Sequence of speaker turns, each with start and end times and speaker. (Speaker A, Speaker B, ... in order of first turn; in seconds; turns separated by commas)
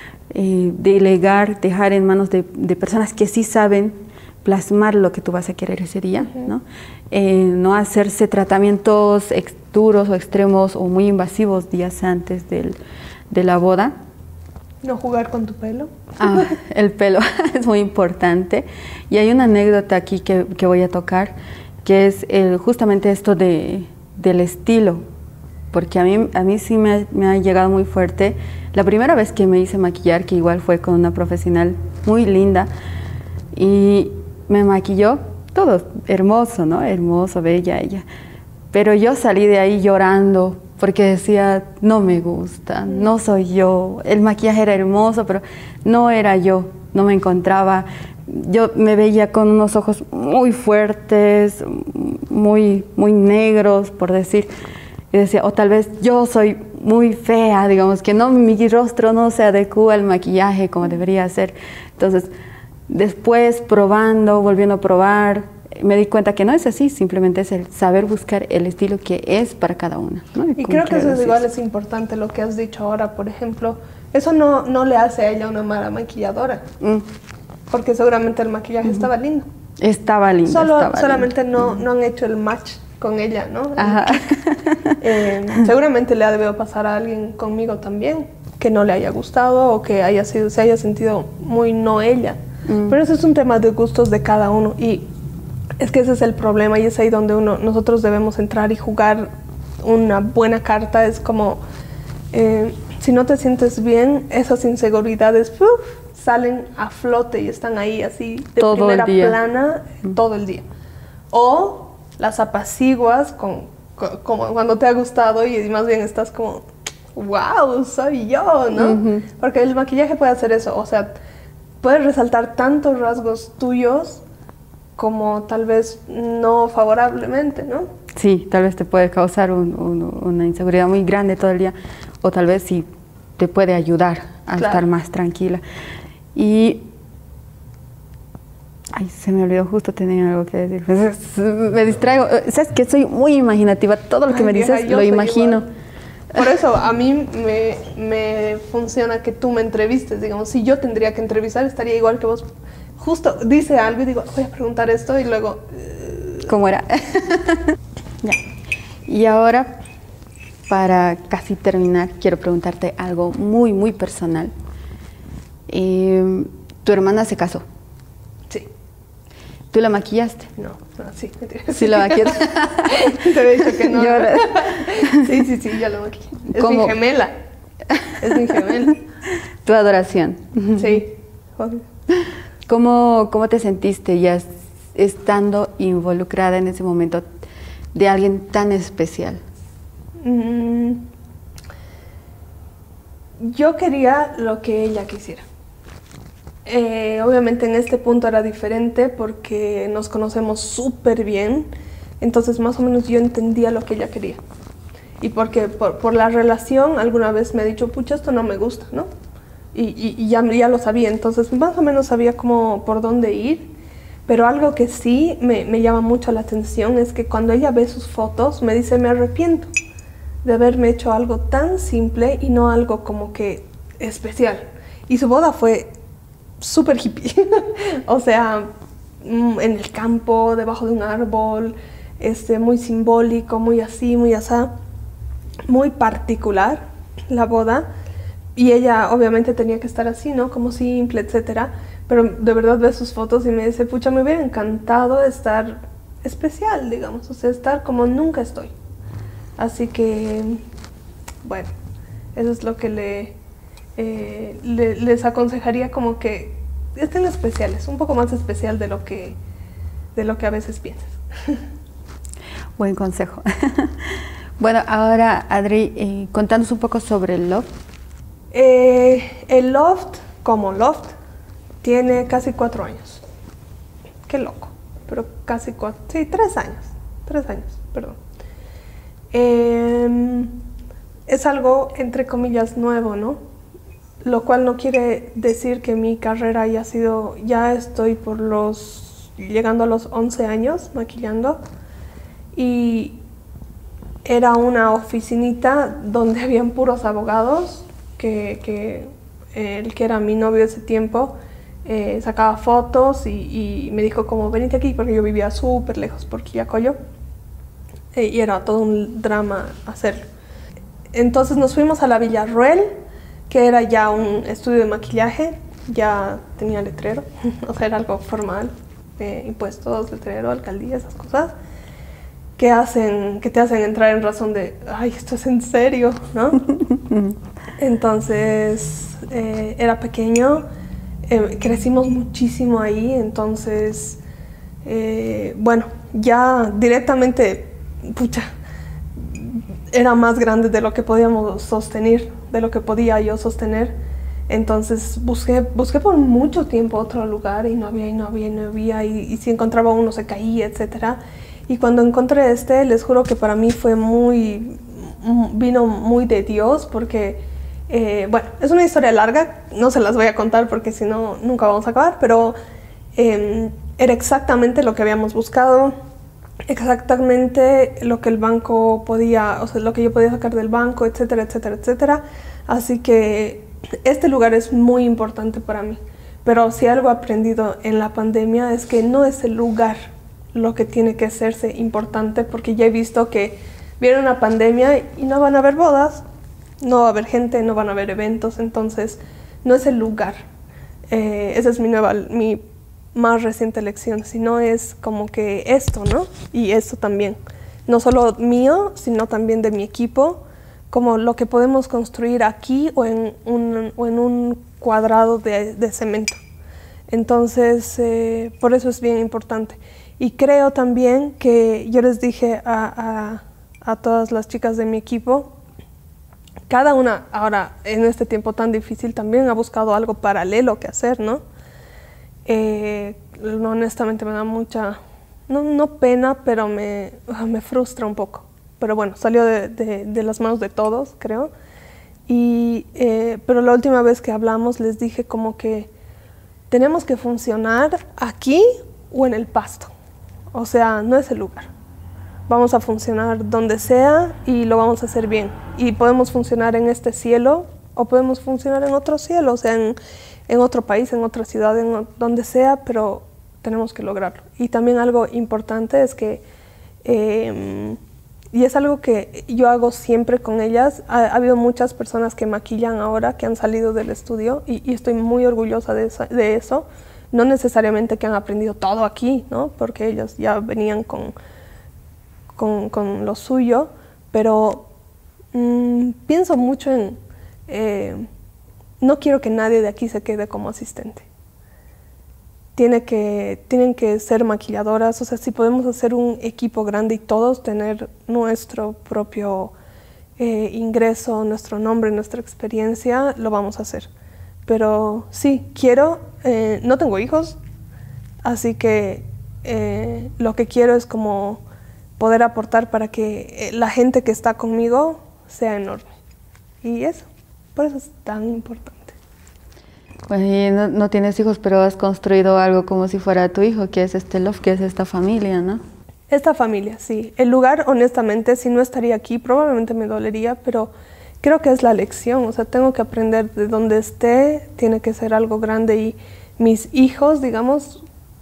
Speaker A: 0.3-12.8, Speaker B: 6.2-6.5, Speaker A: 13.3-13.9, Speaker B: 14.8-16.5, Speaker A: 16.2-25.0, Speaker A: 25.7-32.7, Speaker A: 33.5-38.0, Speaker A: 38.7-54.5, Speaker A: 55.1-62.3, Speaker A: 62.9-71.4, Speaker B: 70.6-76.6, Speaker A: 76.8-77.1, Speaker B: 77.7-79.5, Speaker A: 79.8-81.8, Speaker B: 80.5-84.4, Speaker A: 83.8-85.0, Speaker B: 85.0-95.1, Speaker A: 92.7-93.0, Speaker B: 95.8-101.6, Speaker B: 102.3-110.7, Speaker A: 108.6-109.4, Speaker B: 111.3-121.1, Speaker A: 118.7-119.3, Speaker B: 121.8-124.2, Speaker B: 125.0-127.9, Speaker A: 128.1-132.9, Speaker A: 133.4-135.6, Speaker B: 134.6-134.9, Speaker A: 136.3-136.9, Speaker A: 138.9-145.6, Speaker B: 144.3-145.6, Speaker B: 146.3-156.5, Speaker A: 156.5-158.4, Speaker A: 159.1-159.8, Speaker A: 160.7-164.5, Speaker A: 165.7-167.6, Speaker A: 169.7-170.5, Speaker B: 170.6-177.3, Speaker A: 171.7-175.3, Speaker A: 176.5-176.9, Speaker A: 177.9-178.5, Speaker B: 178.2-179.0, Speaker A: 179.6-181.0, Speaker B: 180.8-181.8, Speaker A: 182.7-187.2, Speaker A: 187.9-189.4, Speaker B: 190.2-191.1, Speaker B: 193.4-195.4, Speaker B: 196.6-204.4, Speaker B: 205.2-209.1, Speaker B: 209.7-213.7, Speaker B: 214.3-219.7, Speaker B: 220.4-225.9, Speaker B: 226.6-228.7, Speaker B: 229.2-234.7, Speaker B: 235.7-237.9, Speaker B: 238.5-248.7, Speaker B: 249.6-250.6, Speaker B: 251.4-251.7, Speaker B: 252.3-253.3, Speaker B: 253.9-259.4, Speaker B: 260.1-261.6, Speaker A: 262.8-267.7, Speaker B: 268.5-271.1, Speaker B: 271.8-273.2, Speaker B: 274.3-278.2, Speaker B: 279.3-280.6, Speaker B: 281.3-283.4, Speaker B: 284.2-291.6, Speaker B: 292.5-293.2, Speaker B: 294.2-307.0, Speaker B: 308.1-310.3, Speaker B: 311.1-321.5, Speaker B: 322.6-326.7, Speaker A: 326.8-327.4, Speaker B: 327.8-330.6, Speaker B: 331.2-334.2, Speaker B: 334.8-338.5, Speaker B: 339.1-344.0, Speaker B: 344.5-362.6, Speaker B: 363.1-365.9, Speaker B: 366.7-380.0, Speaker B: 380.5-386.2, Speaker B: 386.8-390.4, Speaker B: 391.1-392.6, Speaker B: 393.1-406.4, Speaker B: 407.1-415.5, Speaker B: 416.7-421.4, Speaker B: 422.4-431.5, Speaker B: 432.3-435.9, Speaker B: 436.7-439.9, Speaker B: 440.5-441.7, Speaker B: 442.5-456.4, Speaker B: 457.0-458.0, Speaker B: 458.5-471.3, Speaker B: 472.5-474.9, Speaker B: 475.5-478.3, Speaker B: 479.0-481.2, Speaker B: 482.8-489.7, Speaker B: 490.4-494.1, Speaker B: 494.6-497.6, Speaker B: 498.4-501.6, Speaker B: 502.2-506.1, Speaker B: 506.8-509.1, Speaker A: 510.3-515.8, Speaker B: 516.3-528.0